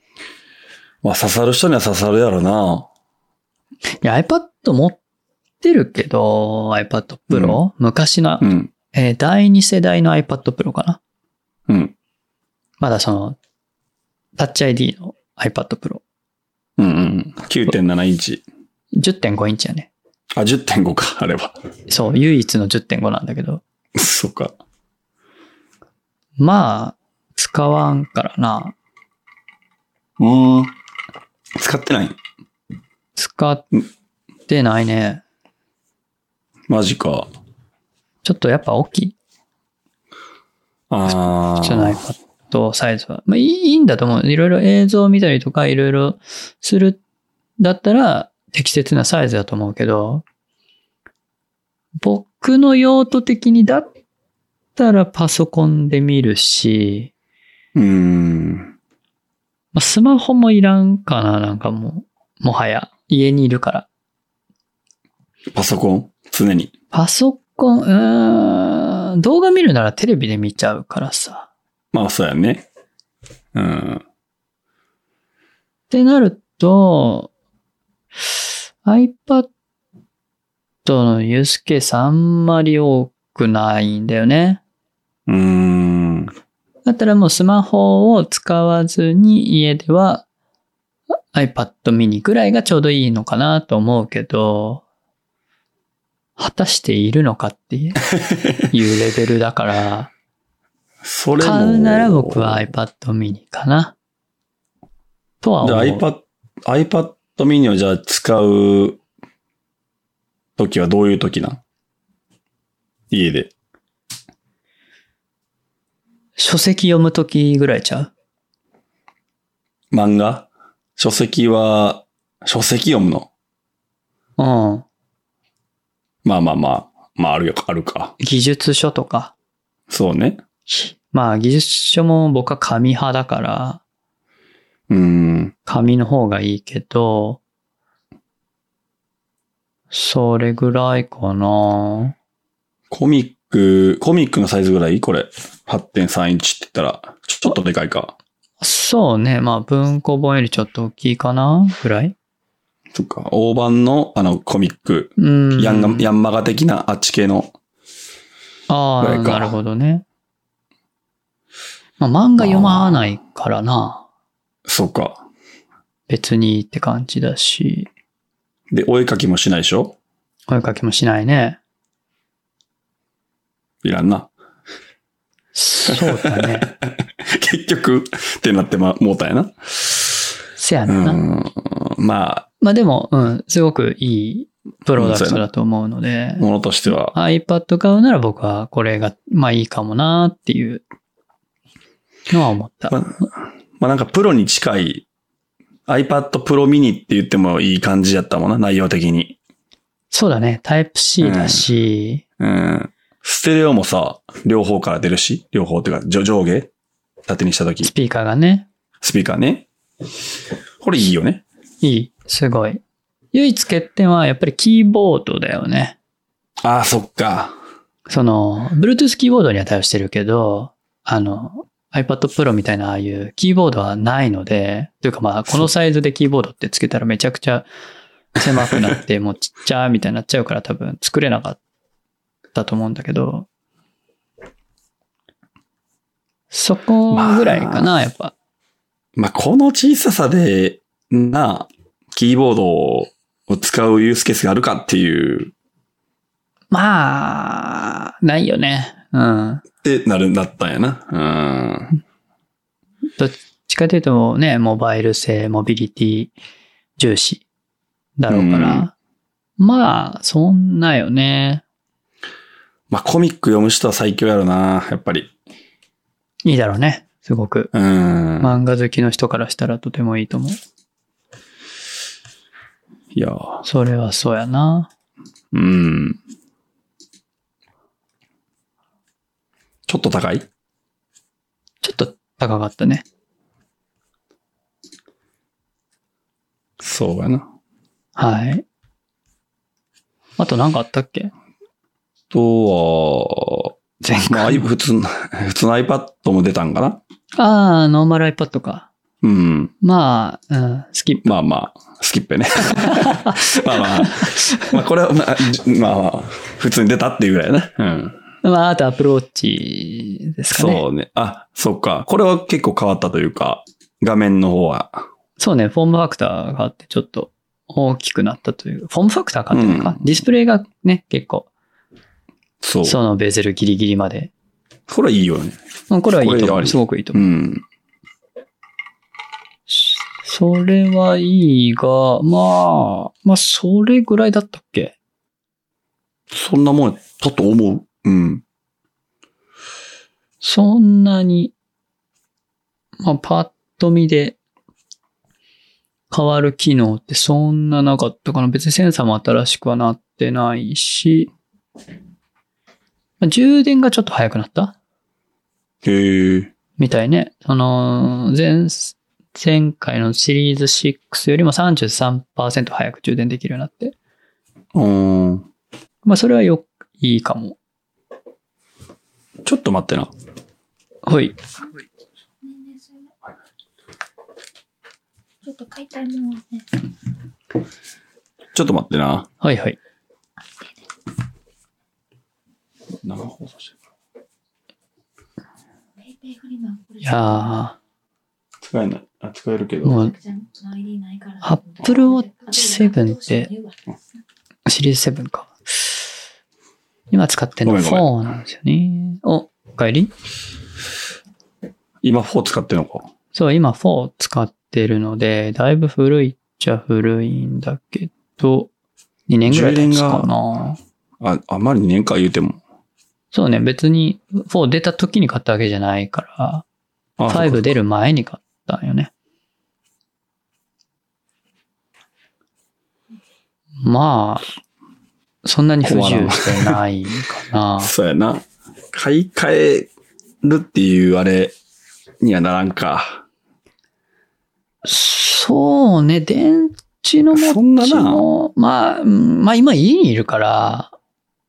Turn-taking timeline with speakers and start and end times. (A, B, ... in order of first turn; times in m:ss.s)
0:01.0-0:02.9 A
0:04.0-0:05.0 B
0:05.6-0:11.0 B
0:07.3-0:07.6 A
0:08.4-0:08.7 A
0:11.7-0:11.9 A
0:12.8-0:13.4 B
0:14.4-0:16.0 B
0:16.8-0:18.4 A
0:19.0-0:19.9 B
0:20.4-0:21.6 A
0:21.9-0:23.6 B
0:24.0-0:24.6 A
0:26.4-0:28.8 B
0:30.2-0:30.7 A
0:31.6-0:32.2 A
0:33.2-0:33.7 B
0:34.5-0:35.2 B
0:36.7-0:37.3 A
0:38.2-0:39.2 B
0:40.9-0:42.0 A
0:41.1-0:47.0 B
0:47.6-0:50.2 B
0:52.0-0:53.9 B
0:54.8-0:57.1 B
0:57.8-0:58.7 A
0:59.7-1:03.9 B
1:05.5-1:06.7 A
1:06.9-1:11.5 B
1:11.9-1:12.7 A
1:13.5-1:14.0 A
1:15.9-1:17.3 B
1:18.8-1:19.5 B
1:20.8-1:24.6 B
1:25.3-1:26.3 A
1:26.8-1:30.2 B
1:31.3-1:34.8 B
1:36.4-1:38.0 B
1:38.3-1:38.6 A
1:38.7-1:40.1 B
1:41.0-1:42.7 A
1:41.4-1:44.0 B
1:45.4-1:46.0 B
1:45.6-1:49.0 A
1:50.6-1:51.6 A
1:53.1-1:53.5 A
1:56.4-1:58.1 B
1:59.9-2:03.3 A
2:04.4-2:04.8 B
2:06.2-2:08.2 A
2:08.2-2:09.3 B
2:09.9-2:10.4 A
2:10.7-2:13.8 B
2:14.9-2:15.6 A
2:15.7-2:17.4 B
2:19.9-2:22.2 B
2:22.9-2:28.2 A
2:28.6-2:32.2 B
2:32.9-2:37.5 A
2:35.2-2:36.1 B
2:38.7-2:40.0 B
2:39.0-2:39.6 A
2:42.0-2:44.0 B
2:42.4-2:43.1 A
2:44.7-2:45.2 A
2:46.1-2:47.9 B
2:48.7-2:50.0 A
2:50.5-2:51.6 B
2:53.8-2:54.3 A
2:55.5-2:56.7 B
2:55.9-3:00.3 A
3:00.6-3:01.2 B
3:00.9-3:02.5 A
3:02.6-3:10.8 B
3:05.0-3:05.4 A
3:06.4-3:07.2 A
3:12.3-3:13.1 B
3:12.9-3:13.2 A
3:13.8-3:15.1 A
3:15.9-3:19.4 A
3:20.1-3:22.2 B
3:21.2-3:21.7 A
3:22.4-3:26.7 A
3:27.3-3:27.9 A
3:27.8-3:28.7 B
3:29.0-3:29.7 A
3:30.8-3:31.4 A
3:31.8-3:32.8 B
3:33.3-3:36.0 B
3:36.6-3:37.6 A
3:38.1-3:47.7 B
3:48.4-3:51.6 B
3:52.5-3:53.5 B
3:56.5-3:58.3 B
3:57.1-3:57.9 A
3:59.2-4:05.5 A
4:06.7-4:09.6 B
4:09.8-4:12.0 A
4:13.2-4:16.3 B
4:17.0-4:17.4 B
4:18.2-4:18.9 B
4:18.3-4:18.9 A
4:19.6-4:21.6 B
4:22.9-4:25.3 A
4:26.4-4:27.7 B
4:27.7-4:28.6 A
4:28.4-4:30.6 B
4:33.1-4:33.7 A
4:33.6-4:34.9 B
4:35.5-4:36.2 A
4:39.9-4:40.5 A
4:41.8-4:43.0 B
4:46.8-4:47.5 A
4:48.2-4:48.6 B
4:50.4-4:51.3 B
4:52.3-4:57.0 A
4:54.0-4:54.6 B
4:57.4-4:58.9 B
4:59.2-4:59.7 A
4:59.8-5:01.3 B
5:01.2-5:08.2 A
5:02.7-5:04.8 B
5:08.4-5:10.8 B
5:10.5-5:15.1 A
5:15.4-5:21.5 B
5:19.5-5:20.1 A
5:22.6-5:23.0 A
5:22.8-5:24.3 B
5:24.9-5:25.6 A
5:25.9-5:27.3 B
5:26.2-5:27.6 A
5:29.7-5:35.0 B
5:36.3-5:38.4 A
5:40.4-5:41.5 B
5:43.0-5:44.4 B
5:46.1-5:51.3 B
5:53.2-5:54.8 B
5:55.8-5:56.5 A
5:56.8-6:04.0 B
6:04.7-6:05.5 A
6:06.0-6:07.6 B
6:09.4-6:10.1 A
6:11.1-6:11.4 B
6:12.4-6:13.1 C
6:15.4-6:16.8 C
6:18.6-6:19.3 A
6:19.4-6:19.8 B
6:23.0-6:23.8 A
6:26.0-6:27.7 C
6:27.0-6:27.8 B
6:28.6-6:30.0 A
6:29.8-6:30.1 B
6:29.8-6:34.0 C
6:31.4-6:33.5 B
6:34.7-6:36.0 B
6:37.1-6:40.1 B
6:37.6-6:38.1 A
6:42.0-6:43.1 A
6:43.3-6:48.7 B
6:49.3-6:50.8 B
6:49.5-6:50.3 A
6:51.2-6:52.6 A
6:53.3-6:56.6 B
6:57.2-6:57.7 A
6:57.3-6:59.1 B
7:03.8-7:04.5 B
7:05.4-7:07.9 B
7:05.8-7:06.8 A
7:07.8-7:09.9 A
7:10.4-7:11.6 A
7:12.2-7:13.2 A
7:14.8-7:20.9 B
7:17.3-7:18.3 A